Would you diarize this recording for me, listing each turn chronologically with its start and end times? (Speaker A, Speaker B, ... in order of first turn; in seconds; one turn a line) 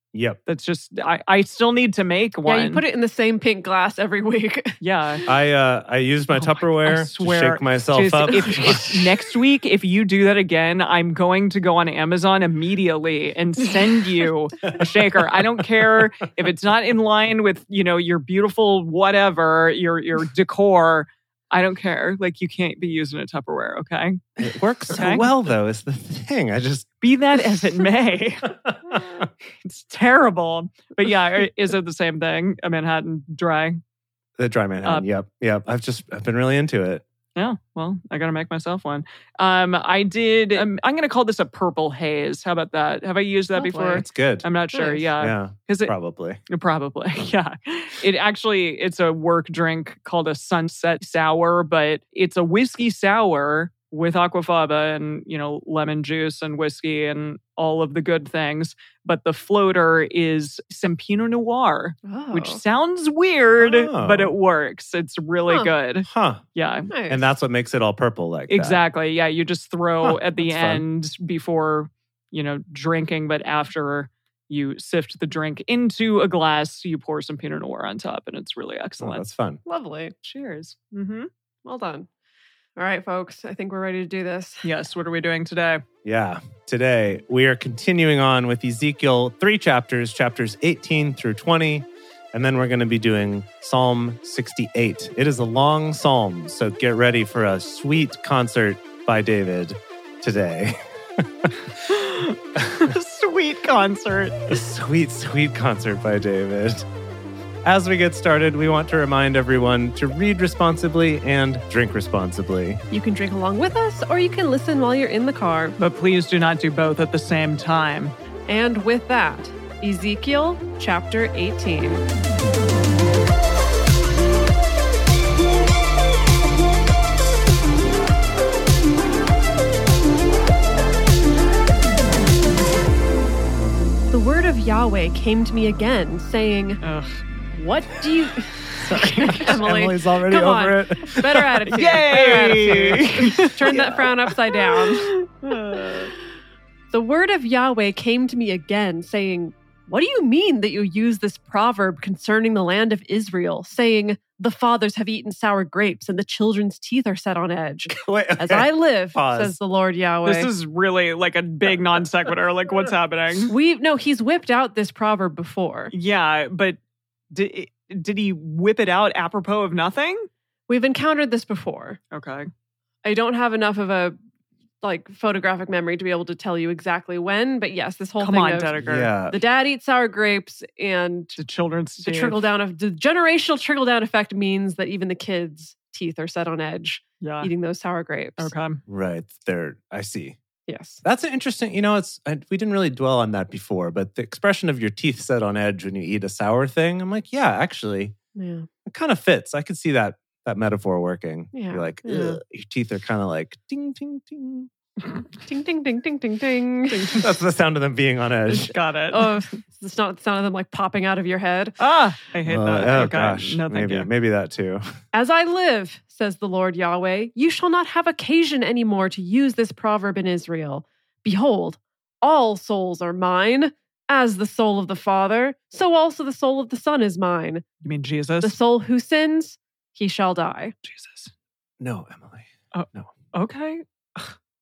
Speaker A: 0.1-0.4
Speaker B: 0.5-2.8
Speaker C: 2.5-4.7
Speaker B: 4.8-5.2
Speaker A: 5.3-8.8
Speaker B: 6.3-24.2
Speaker C: 8.1-9.1
Speaker A: 24.4-26.9
Speaker B: 24.9-25.3
Speaker B: 27.0-28.6
Speaker A: 28.7-29.3
Speaker B: 29.6-33.8
Speaker A: 34.4-37.0
Speaker B: 37.4-45.9
Speaker C: 43.5-44.0
Speaker A: 43.9-44.5
Speaker C: 44.7-45.1
Speaker A: 45.2-46.4
Speaker B: 46.5-66.9
Speaker C: 62.1-62.6
Speaker A: 63.6-64.3
Speaker A: 66.0-66.4
Speaker C: 66.9-67.3
Speaker A: 67.1-68.8
Speaker B: 68.5-79.2
Speaker A: 70.0-70.8
Speaker A: 79.0-79.6
Speaker C: 79.7-80.1
Speaker B: 80.2-81.3
Speaker C: 81.7-82.1
Speaker C: 82.8-84.7
Speaker B: 84.6-85.8
Speaker A: 86.0-101.8
Speaker B: 101.9-104.6
Speaker A: 102.6-102.9
Speaker A: 104.5-106.9
Speaker A: 107.6-112.8
Speaker C: 112.9-115.8
Speaker B: 115.8-118.1
Speaker C: 118.5-122.0
Speaker C: 134.1-136.8
Speaker B: 136.8-137.2
Speaker C: 137.5-145.8
Speaker B: 138.8-139.6
Speaker A: 139.4-143.2
Speaker B: 141.7-143.8
Speaker A: 143.7-144.1
Speaker B: 144.8-146.1
Speaker C: 146.9-160.5
Speaker A: 157.9-159.6
Speaker B: 160.2-163.5
Speaker A: 161.7-162.0
Speaker C: 163.5-165.9
Speaker B: 165.9-166.8
Speaker B: 167.3-170.3
Speaker C: 170.7-172.0
Speaker B: 172.1-172.5
Speaker C: 173.0-174.2
Speaker C: 174.8-178.8
Speaker B: 178.2-179.1
Speaker A: 178.8-179.4
Speaker C: 179.3-181.4
Speaker B: 181.4-182.5
Speaker C: 182.0-188.5
Speaker B: 187.2-187.5
Speaker B: 188.4-188.8
Speaker A: 188.9-190.4
Speaker C: 190.7-191.0
Speaker A: 191.0-198.2
Speaker C: 198.3-198.7
Speaker A: 198.9-204.7
Speaker C: 201.5-202.4
Speaker C: 205.5-207.2
Speaker B: 206.9-207.3
Speaker A: 207.2-208.7
Speaker B: 208.5-209.4
Speaker C: 209.1-211.8
Speaker B: 211.8-214.1
Speaker A: 212.5-214.8
Speaker C: 215.1-227.6
Speaker B: 227.8-228.6
Speaker C: 228.4-230.7
Speaker B: 230.8-231.3
Speaker A: 231.8-233.2
Speaker B: 232.7-234.3